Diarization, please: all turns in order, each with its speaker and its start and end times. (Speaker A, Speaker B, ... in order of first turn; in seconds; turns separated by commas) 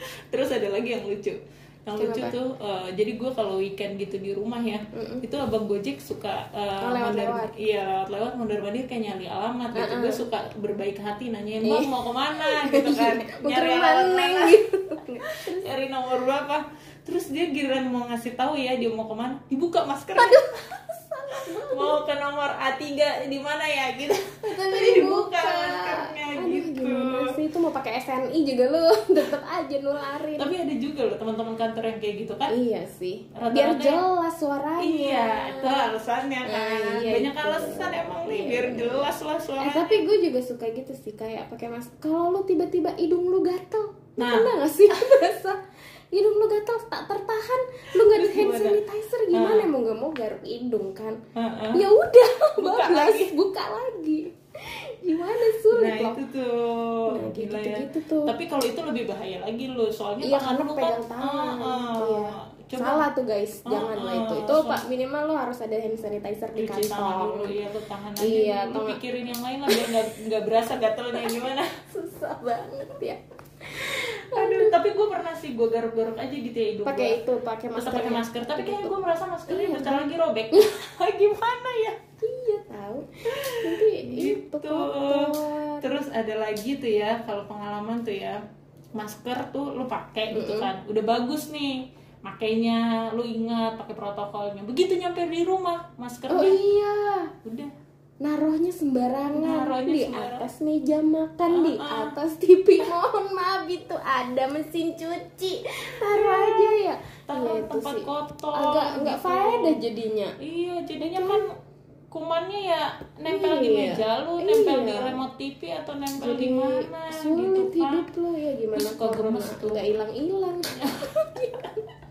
Speaker A: 0.3-14.6, Speaker B: 2.0-2.4, Speaker B: 4.9-5.2, Speaker B: 6.8-7.5, Speaker B: 9.7-10.3, Speaker B: 11.6-15.7, Speaker A: 15.3-20.6, Speaker B: 20.2-22.0, Speaker A: 21.7-27.3, Speaker B: 24.4-30.6, Speaker A: 30.4-32.5, Speaker B: 32.5-35.9, Speaker A: 33.4-34.0, Speaker A: 34.8-40.0, Speaker B: 36.4-45.6, Speaker A: 44.2-45.2, Speaker B: 46.1-51.2, Speaker A: 48.0-48.8, Speaker A: 49.3-49.7, Speaker A: 51.4-51.8, Speaker B: 51.7-56.2, Speaker A: 52.6-53.4, Speaker A: 55.7-63.0, Speaker B: 57.1-58.4, Speaker B: 60.2-67.5, Speaker A: 63.7-64.8, Speaker A: 66.6-71.7, Speaker B: 68.2-69.0, Speaker B: 71.9-74.8, Speaker A: 74.2-77.2, Speaker B: 76.9-79.0, Speaker A: 77.8-82.0, Speaker B: 79.5-80.7, Speaker B: 82.2-85.9, Speaker A: 83.3-88.4, Speaker A: 89.0-96.6, Speaker B: 90.3-90.7, Speaker B: 96.3-97.3, Speaker A: 97.4-97.7, Speaker B: 98.2-110.4, Speaker A: 99.4-100.5, Speaker A: 101.5-102.2, Speaker A: 106.0-109.8, Speaker A: 110.4-111.5, Speaker B: 111.0-111.4, Speaker A: 112.1-118.1, Speaker B: 113.3-115.2, Speaker B: 116.1-121.8, Speaker A: 118.8-119.8, Speaker A: 120.8-121.5